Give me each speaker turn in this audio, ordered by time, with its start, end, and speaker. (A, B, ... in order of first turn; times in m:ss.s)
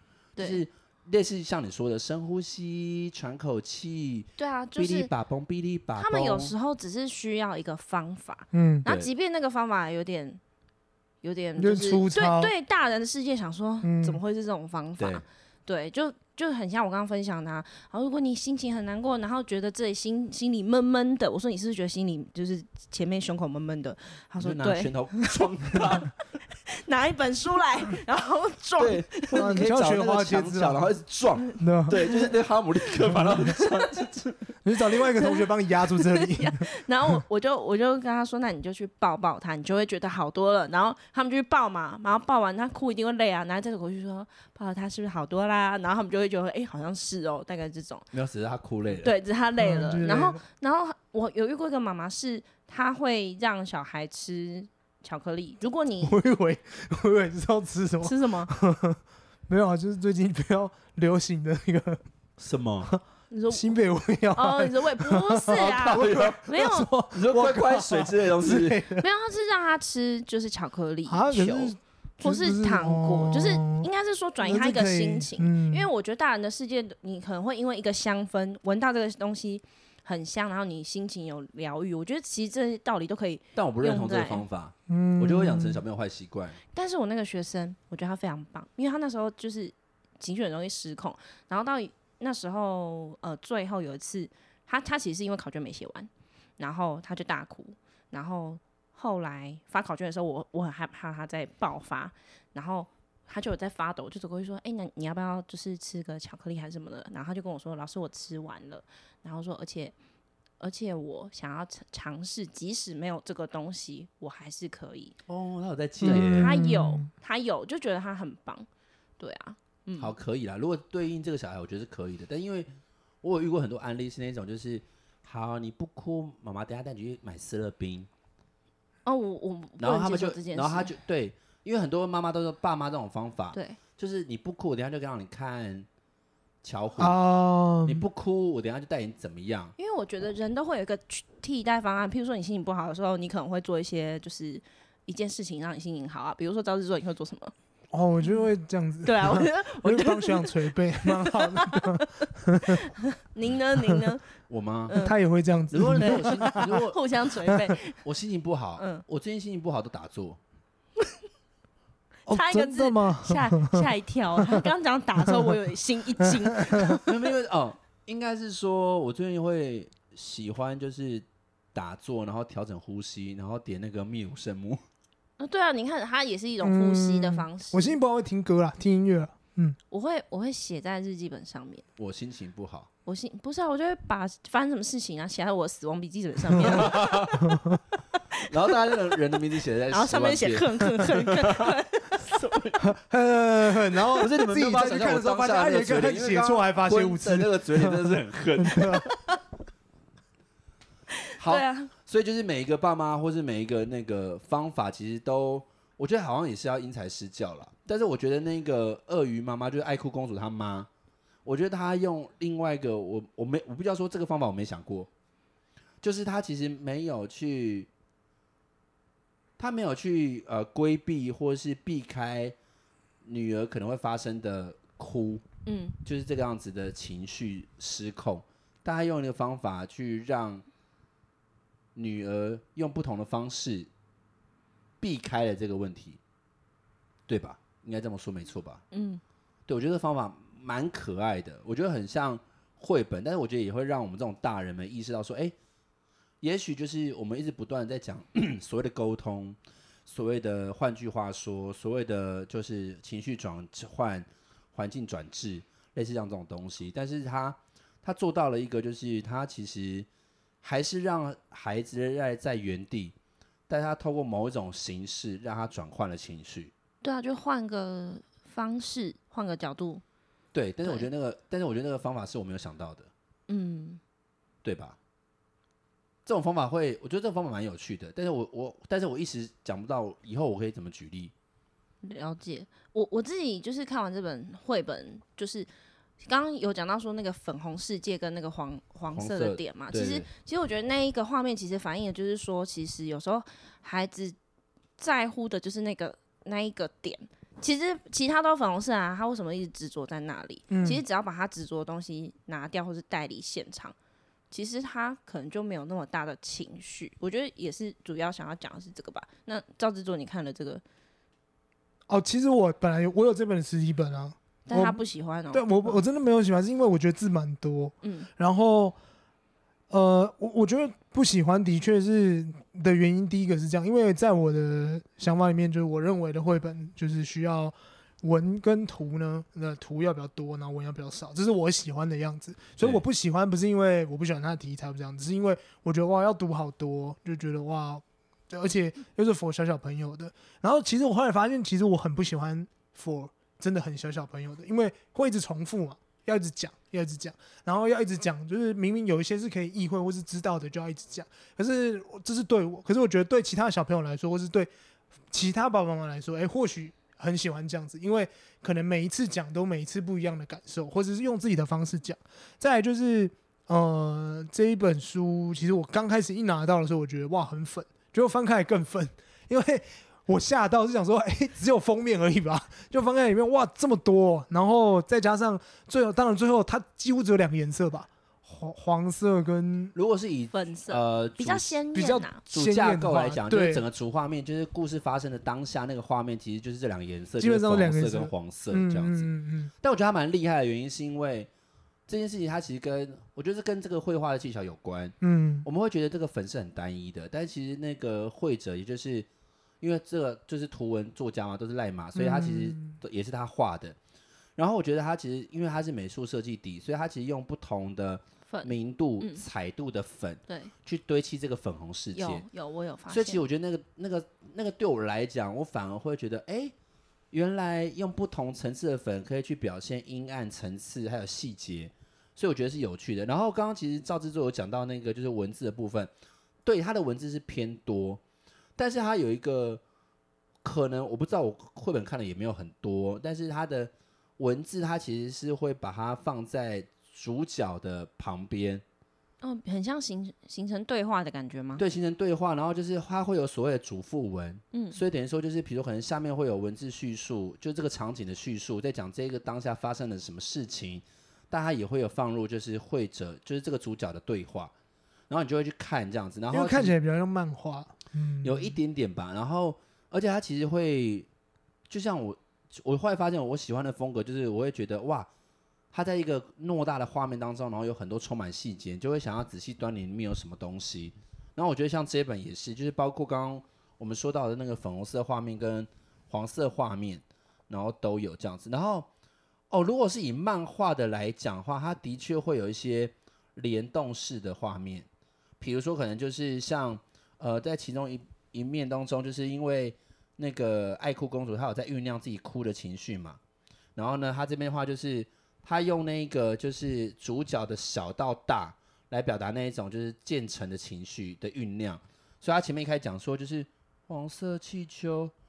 0:00.4-0:00.6 A
0:00.4-0:06.5 B
0:04.4-0:05.1 A
0:06.0-0:10.4 A
0:08.5-0:08.8 C
0:11.2-0:25.3 A
0:11.6-0:12.5 C
0:13.8-0:14.2 C
0:15.0-0:15.2 B
0:24.4-0:26.1 B
0:26.7-0:29.6 A
0:28.8-0:34.5 B
0:29.3-0:30.9 C
0:31.6-0:32.0 C
0:34.6-0:36.6 C
0:35.2-0:48.0 A
0:48.1-0:49.1 B
0:49.0-0:56.2 A
0:49.6-0:50.4 C
0:56.0-1:02.0 C
0:58.0-0:58.5 A
1:02.4-1:02.9 B
1:03.3-1:03.7 A
1:03.5-1:09.0 C
1:04.3-1:06.9 A
1:05.5-1:06.4 B
1:07.1-1:08.8 B
1:09.0-1:24.4 A
1:11.1-1:13.9 C
1:14.4-1:15.9 C
1:23.5-1:26.6 B
1:24.9-1:25.8 C
1:26.7-1:49.9 A
1:50.6-1:55.2 A
1:55.3-1:56.6 B
1:56.0-1:57.1 C
1:56.0-1:58.7 A
1:59.2-2:00.1 A
2:00.0-2:02.7 B
2:03.2-2:08.1 B
2:09.0-2:10.9 A
2:09.8-2:15.9 B
2:16.6-2:17.2 B
2:17.0-2:18.0 C
2:17.8-2:19.7 B
2:19.8-2:27.5 A
2:27.9-2:32.8 C
2:29.0-2:34.2 A
2:34.5-2:35.0 B
2:34.9-2:35.2 A
2:35.0-2:36.8 C
2:35.7-2:37.0 B
2:36.0-2:38.0 A
2:38.0-2:40.4 B
2:38.8-2:39.0 A
2:42.3-2:43.9 C
2:42.3-2:47.1 A
2:46.2-2:47.0 C
2:47.0-2:54.8 B
2:55.4-2:58.0 A
2:56.6-2:59.8 C
2:59.9-3:01.8 A
3:02.0-3:02.9 B
3:03.0-3:07.5 A
3:06.6-3:07.4 B
3:07.5-3:07.8 C
3:08.3-3:08.8 A
3:08.5-3:12.8 B
3:09.9-3:12.4 A
3:12.8-3:19.0 C
3:14.2-3:19.0 B
3:19.0-3:19.4 A
3:21.4-3:30.9 B
3:21.4-3:21.9 A
3:31.4-3:35.1 B
3:36.0-3:37.9 B
3:39.6-3:42.6 B
3:43.2-3:45.4 B
3:45.6-3:46.0 A
3:46.0-3:50.6 B
3:51.9-3:53.9 B
3:55.0-3:56.2 B
3:57.3-3:58.8 B
3:58.9-3:59.2 A
3:59.7-4:05.5 B
4:06.4-4:20.1 B
4:20.6-4:23.1 B
4:23.7-4:26.7 B
4:27.0-4:30.0 A
4:30.5-4:33.1 B
4:33.5-4:34.0 A
4:34.6-4:35.0 B
4:36.2-4:41.3 B
4:42.0-4:45.7 A
4:46.2-4:54.4 A
4:49.1-4:50.3 B
4:55.0-5:03.9 A
5:00.7-5:01.0 C
5:04.5-5:10.8 A
5:12.1-5:19.0 C
5:14.7-5:16.0 A
5:18.0-5:18.3 A
5:19.9-5:54.7 C
5:32.8-5:33.0 B
5:55.3-6:19.9 C
6:19.9-6:21.8 B
6:20.5-6:22.4 A
6:21.9-6:23.8 C
6:22.5-6:29.3 B
6:27.4-6:29.7 C
6:29.8-6:31.5 B
6:32.1-6:35.1 B
6:35.2-6:35.6 C
6:35.6-6:39.3 B
6:39.8-6:44.0 B
6:42.1-6:43.0 C
6:44.6-6:52.4 B
6:48.5-6:49.4 A
6:52.1-6:53.4 A
6:53.1-6:56.7 B
6:57.3-7:06.1 B
7:06.6-7:08.2 B
7:08.8-7:09.8 B
7:10.6-7:18.8 B
7:19.4-7:21.8 A
7:21.8-7:34.7 B
7:24.7-7:25.0 A
7:35.3-7:37.0 B
7:36.5-7:38.8 C
7:38.4-7:41.3 B
7:41.9-7:45.3 B
7:45.9-7:59.1 B
7:59.7-8:05.1 B
8:05.6-8:13.4 B
8:14.0-8:25.3 B